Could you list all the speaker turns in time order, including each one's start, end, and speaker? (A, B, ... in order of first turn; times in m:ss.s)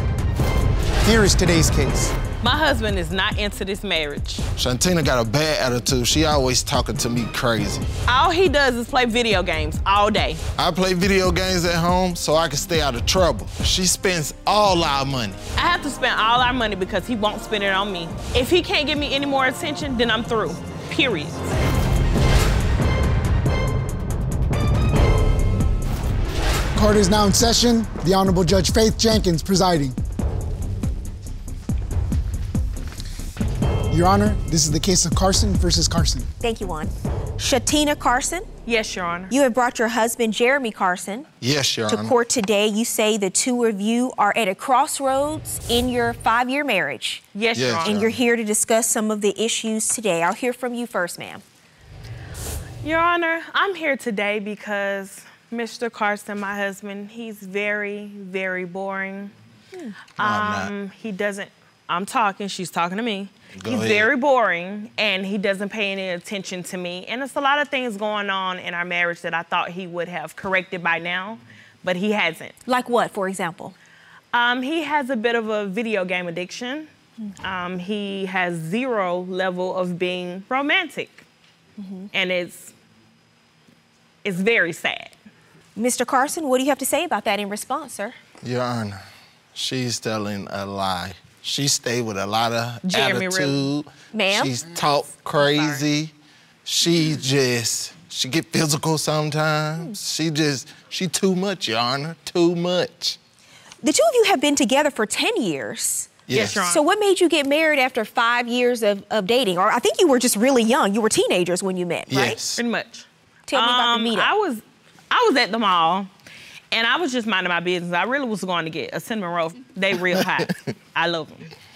0:01.0-0:02.2 A
0:02.4-0:04.4 B
0:04.6-0:07.9 C
0:08.1-0:10.4 B
0:10.6-0:15.4 C
0:15.6-0:21.5 B
0:26.8-0:30.0 A
0:33.9-0:36.3 A
0:36.4-0:38.5 D
0:38.6-0:39.3 B
0:39.3-0:41.3 D
0:41.4-0:42.1 C
0:41.9-0:47.2 D
0:47.4-0:48.0 B
0:47.6-0:48.2 C
0:47.8-0:51.4 D
0:52.8-0:59.3 B
1:00.2-1:12.5 B
1:00.2-1:00.7 C
1:03.6-1:04.1 C
1:12.6-1:13.8 D
1:14.3-1:16.9 B
1:17.4-1:21.2 B
1:22.1-1:22.7 B
1:24.2-1:25.2 B
1:25.8-1:28.2 D
1:28.4-1:29.0 C
1:29.6-1:36.1 C
1:32.8-1:33.7 B
1:34.1-1:34.6 D
1:35.4-1:35.8 B
1:36.6-1:43.2 C
1:43.8-1:52.4 D
1:46.3-1:46.6 C
1:46.3-1:46.8 B
1:52.1-1:52.6 C
1:52.6-1:56.1 B
1:53.5-1:54.3 D
1:56.7-2:01.5 B